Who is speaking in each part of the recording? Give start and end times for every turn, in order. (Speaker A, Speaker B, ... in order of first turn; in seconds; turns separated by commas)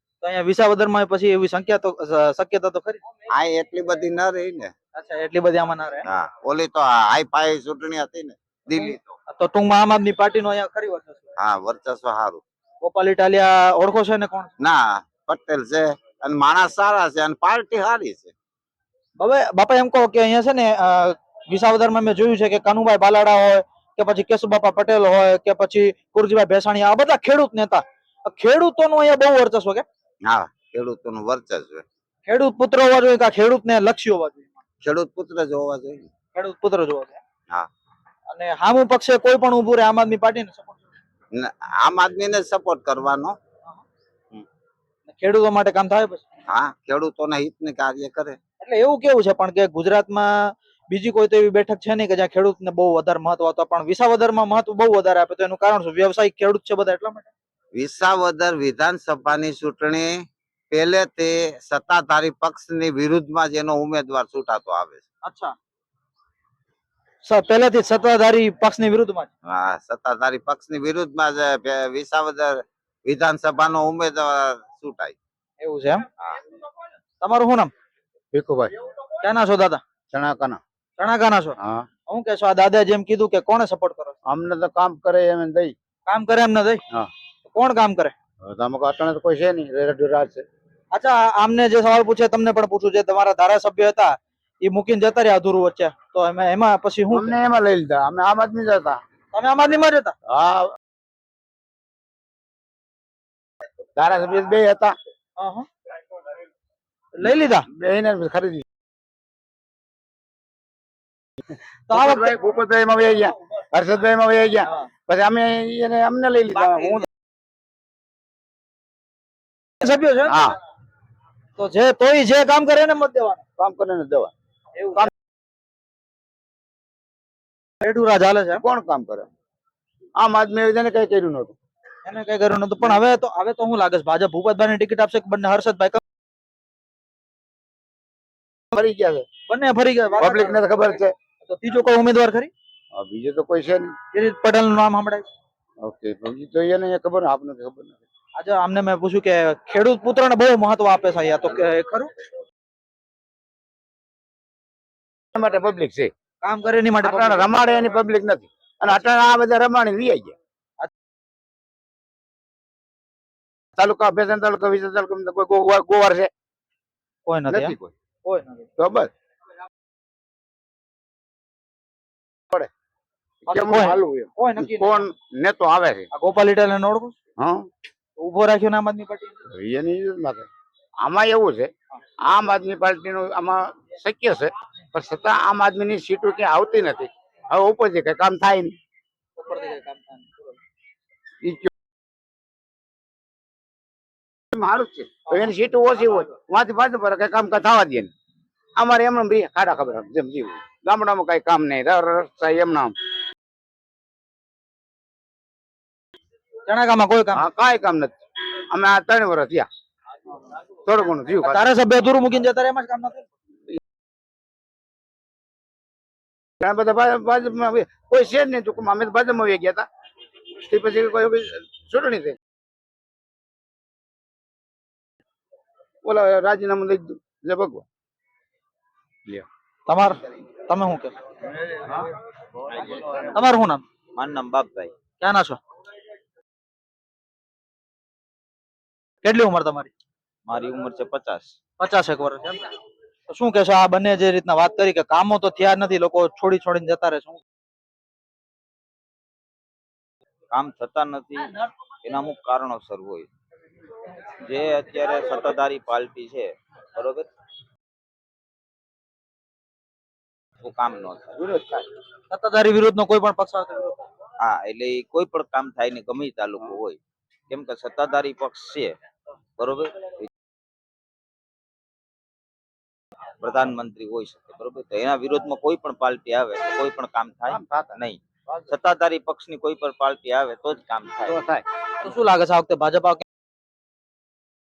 Speaker A: 0.2-3.0, Speaker B: 3.3-4.7, Speaker A: 4.9-6.1, Speaker B: 6.0-9.2, Speaker A: 9.3-11.3, Speaker B: 11.4-12.4, Speaker A: 12.8-14.5, Speaker B: 14.6-18.3, Speaker A: 19.2-29.8, Speaker B: 30.2-31.8, Speaker A: 32.2-34.5, Speaker B: 34.8-36.1, Speaker A: 36.3-37.2, Speaker A: 38.3-40.8, Speaker B: 41.3-43.4, Speaker A: 45.1-46.2, Speaker B: 46.5-48.4, Speaker A: 48.6-57.3, Speaker B: 57.7-65.0, Speaker A: 65.2-65.5, Speaker A: 67.2-69.3, Speaker B: 69.5-75.1, Speaker A: 75.6-76.0, Speaker A: 77.2-77.7, Speaker C: 78.3-78.7, Speaker A: 79.2-79.8, Speaker C: 80.1-80.6, Speaker A: 81.0-81.5, Speaker C: 81.6-81.8, Speaker A: 82.1-84.1, Speaker C: 84.2-85.7, Speaker A: 86.0-86.8, Speaker A: 87.5-88.1, Speaker C: 88.4-90.4, Speaker A: 90.9-97.3, Speaker C: 97.1-99.0, Speaker A: 99.3-100.1, Speaker C: 100.3-100.7, Speaker C: 104.0-104.9, Speaker A: 105.4-105.7, Speaker A: 107.2-107.7, Speaker C: 107.7-108.6, Speaker A: 111.9-112.3, Speaker C: 111.9-117.0, Speaker A: 119.8-120.4, Speaker C: 120.2-120.6, Speaker A: 121.6-123.4, Speaker C: 123.6-124.3, Speaker A: 124.8-125.1, Speaker A: 127.8-128.6, Speaker C: 128.6-129.3, Speaker C: 130.2-131.5, Speaker A: 132.0-136.0, Speaker C: 138.7-139.2, Speaker A: 139.5-140.6, Speaker C: 140.2-141.1, Speaker A: 141.4-142.5, Speaker C: 142.9-143.9, Speaker A: 144.1-145.3, Speaker C: 145.8-148.0, Speaker A: 148.4-152.1, Speaker C: 155.3-156.1, Speaker A: 156.4-157.5, Speaker C: 157.0-160.3, Speaker C: 163.7-166.3, Speaker A: 167.2-168.7, Speaker C: 167.5-167.9, Speaker C: 168.8-169.1, Speaker A: 173.5-175.1, Speaker C: 173.5-176.1, Speaker A: 176.1-177.1, Speaker C: 177.4-177.7, Speaker A: 178.2-179.4, Speaker C: 179.5-180.5, Speaker C: 181.0-181.7, Speaker C: 182.2-188.8, Speaker A: 189.4-190.5, Speaker C: 191.4-191.7, Speaker C: 194.5-198.1, Speaker C: 198.8-202.9, Speaker A: 206.7-207.4, Speaker C: 207.3-208.2, Speaker C: 208.7-209.7, Speaker C: 210.8-211.6, Speaker A: 211.4-213.2, Speaker C: 216.6-219.8, Speaker C: 220.6-222.4, Speaker C: 226.0-227.8, Speaker A: 229.9-231.1, Speaker C: 231.6-232.0, Speaker A: 233.3-233.8, Speaker B: 234.2-234.9, Speaker A: 235.2-235.6, Speaker A: 239.2-239.9, Speaker B: 240.5-241.6, Speaker A: 241.8-242.7, Speaker A: 243.3-247.4, Speaker B: 250.5-253.3, Speaker B: 254.4-257.3, Speaker B: 260.6-261.4, Speaker C: 261.4-261.8, Speaker A: 262.3-264.0, Speaker B: 264.4-267.0, Speaker B: 267.5-268.9, Speaker B: 269.6-270.3, Speaker B: 273.4-281.4, Speaker C: 277.5-277.9, Speaker C: 281.2-281.6, Speaker A: 282.0-283.2